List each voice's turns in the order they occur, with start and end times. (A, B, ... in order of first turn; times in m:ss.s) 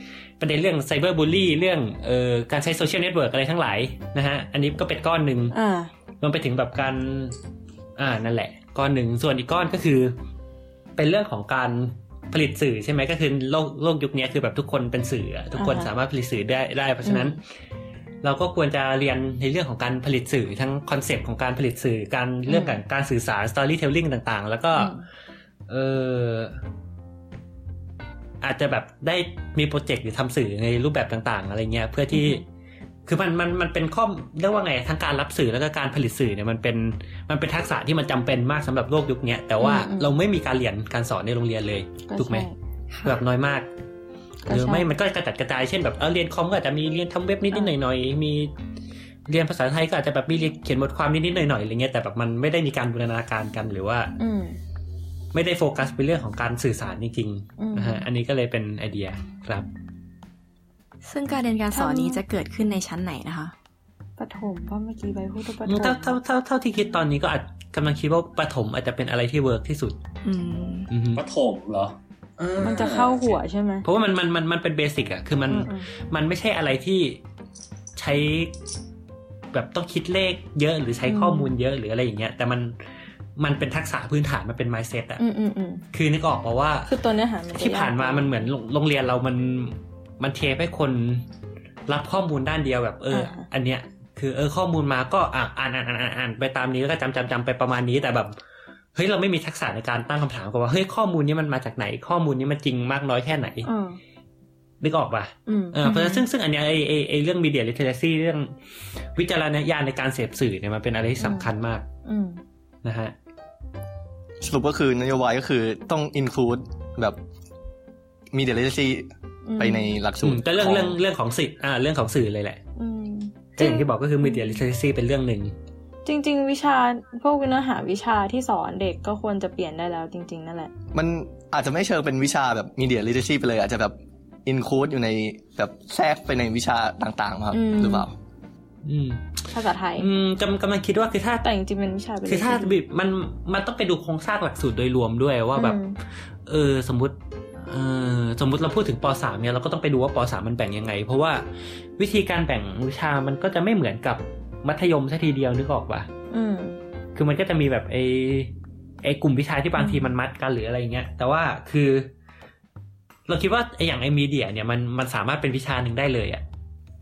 0:00.4-0:05.6 A
0:05.5-0:05.9 B
0:06.2-0:07.4 A
0:08.0-0:10.2 A
0:11.0-0:17.4 A
0:15.6-0:15.9 B
0:17.0-0:17.4 B
0:18.2-0:24.9 A
0:22.5-0:22.8 B
0:24.7-0:25.0 B
0:25.7-0:26.6 A
0:28.4-0:32.4 A
0:32.1-0:32.4 B
0:33.0-0:42.5 A
0:39.6-0:40.2 B
0:42.1-0:42.5 B
0:42.9-0:43.2 C
0:43.0-0:43.7 A
0:44.4-0:44.9 B
0:44.5-0:48.5 A
0:49.3-0:54.1 A
0:54.2-0:54.6 B
0:55.3-0:59.7 A
0:57.6-0:58.1 B
1:01.0-1:03.5 C
1:01.7-1:02.2 B
1:04.2-1:06.2 B
1:05.6-1:10.0 A
1:10.2-1:10.9 C
1:10.9-1:11.2 A
1:11.1-1:13.4 D
1:12.6-1:13.8 B
1:13.8-1:17.2 A
1:15.5-1:15.9 B
1:18.0-1:18.5 A
1:19.5-1:22.7 A
1:21.0-1:21.5 B
1:23.4-1:25.2 A
1:25.2-1:25.8 B
1:25.9-1:27.0 A
1:26.9-1:28.3 B
1:27.5-1:31.2 A
1:31.9-1:38.3 A
1:33.1-1:33.5 B
1:38.9-1:43.7 A
1:43.6-1:44.0 B
1:44.8-1:48.5 A
1:45.5-1:46.2 B
1:49.2-1:51.8 A
1:51.2-1:51.5 B
1:52.0-1:52.4 B
1:52.8-1:53.1 A
1:54.4-1:57.2 E
1:58.3-2:01.0 E
1:59.4-2:00.0 B
2:00.2-2:02.6 A
2:02.8-2:04.6 B
2:03.6-2:05.5 A
2:06.0-2:10.7 B
2:10.9-2:18.1 E
2:17.5-2:18.1 B
2:18.8-2:19.3 A
2:19.5-2:20.1 B
2:20.0-2:21.5 A
2:21.4-2:22.8 B
2:22.2-2:25.8 A
2:25.5-2:26.0 B
2:26.4-2:31.4 A
2:32.0-2:36.1 A
2:36.3-2:36.8 B
2:37.1-2:42.1 A
2:39.8-2:40.1 B
2:43.3-2:46.4 A